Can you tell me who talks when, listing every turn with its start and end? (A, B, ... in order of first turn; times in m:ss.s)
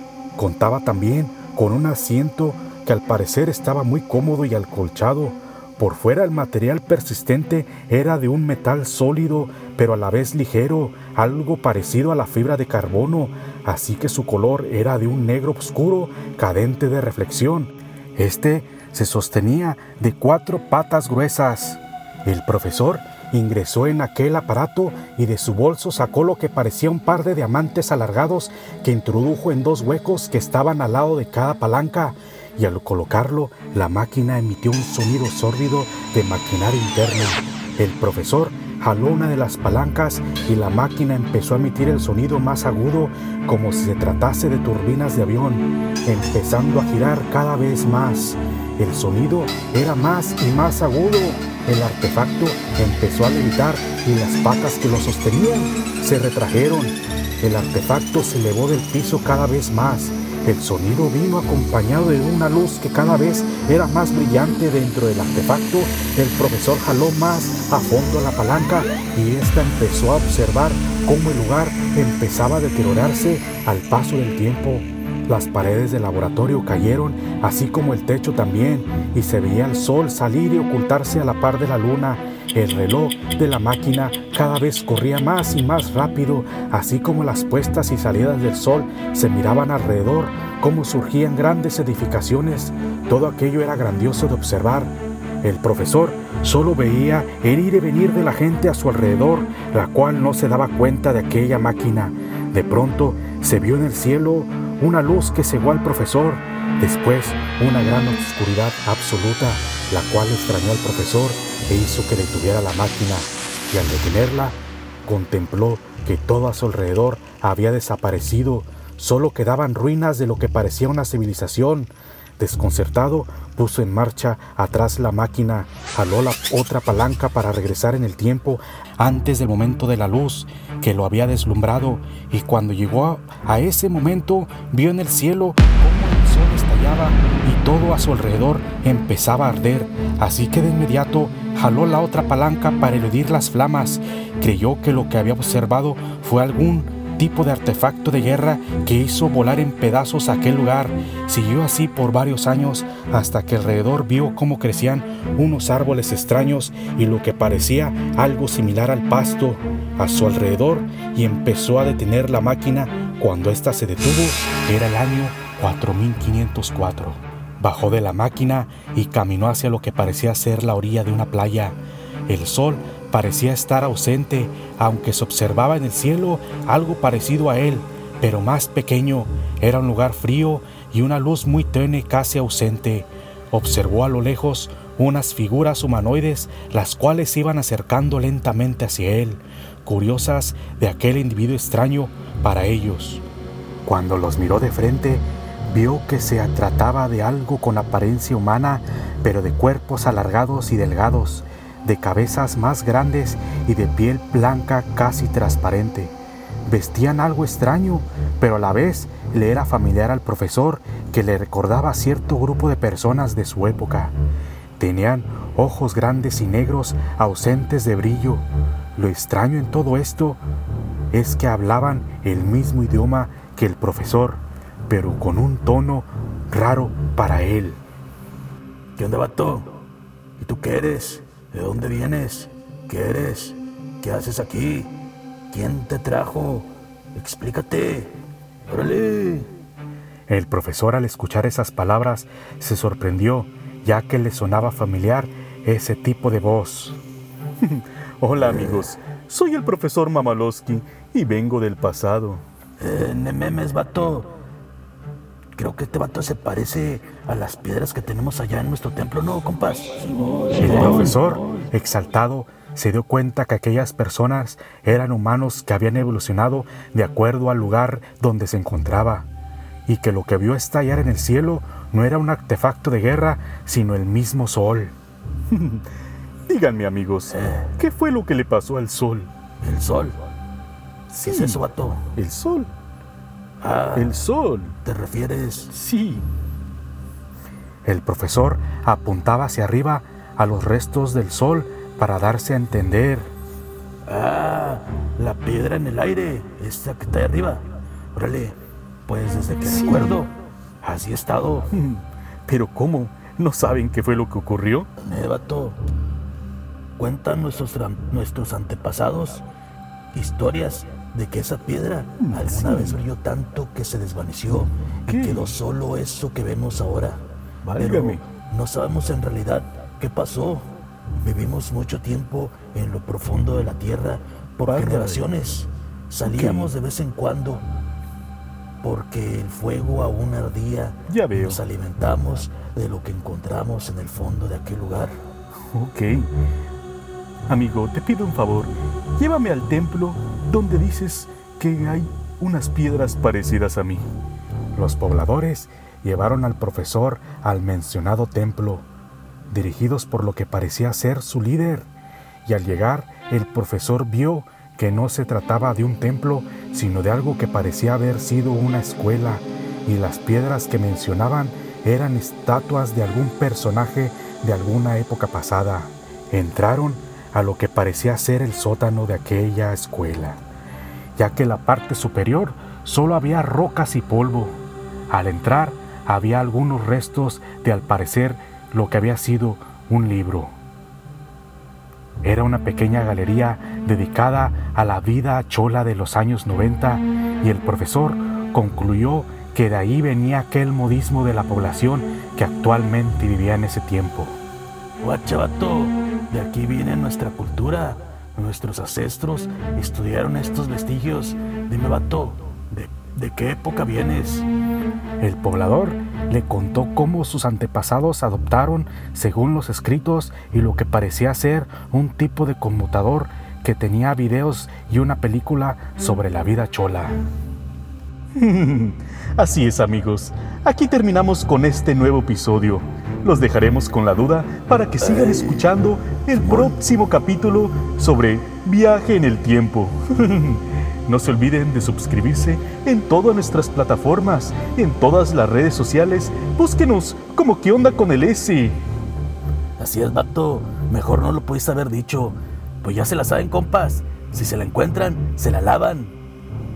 0:00.4-3:13.2 A
3:13.8-3:26.2 A
3:26.7-3:34.1 A
3:34.8-3:38.4 A
3:39.0-3:40.4 A
3:41.1-3:47.8 A
3:49.0-3:49.8 B
3:50.4-3:55.0 B
3:55.5-3:58.2 B
3:58.7-3:59.5 B
4:00.3-4:07.0 A
4:08.2-4:12.4 C
4:08.4-4:08.9 B
4:12.8-4:14.3 B
4:15.6-4:21.1 B
4:20.6-4:29.3 A
4:29.9-4:34.9 A
4:35.5-4:35.8 C
4:36.5-4:39.3 C
4:37.3-4:37.7 B
4:39.6-4:40.2 B
4:41.1-4:41.6 C
4:41.2-4:42.1 B
4:42.1-4:42.7 C
4:43.6-4:44.2 B
4:43.9-4:44.8 C
4:44.8-4:45.7 B
4:45.7-4:46.3 C
4:47.8-4:53.3 A
4:54.1-5:01.7 B
4:59.6-5:00.2 C
5:01.7-5:04.9 C
5:05.0-5:05.8 B
5:07.0-5:09.4 B
5:10.1-5:17.2 B
5:12.2-5:13.0 C
5:15.1-5:15.6 C
5:17.6-5:18.2 C
5:17.8-5:27.6 B
5:24.6-5:25.3 C
5:26.2-5:26.7 C
5:28.8-5:35.2 B
5:31.1-5:31.6 C
5:35.7-5:36.3 C
5:37.5-5:44.1 C
5:44.7-5:48.9 A
5:49.5-5:51.9 A
5:52.4-6:10.4 A
6:11.2-6:20.6 A
6:22.2-6:34.4 A
6:35.0-6:44.5 B
6:45.2-6:57.2 A
6:58.4-7:18.8 C
7:05.0-7:05.7 B
7:05.2-7:05.6 A
7:06.4-7:06.7 B
7:19.8-7:26.2 B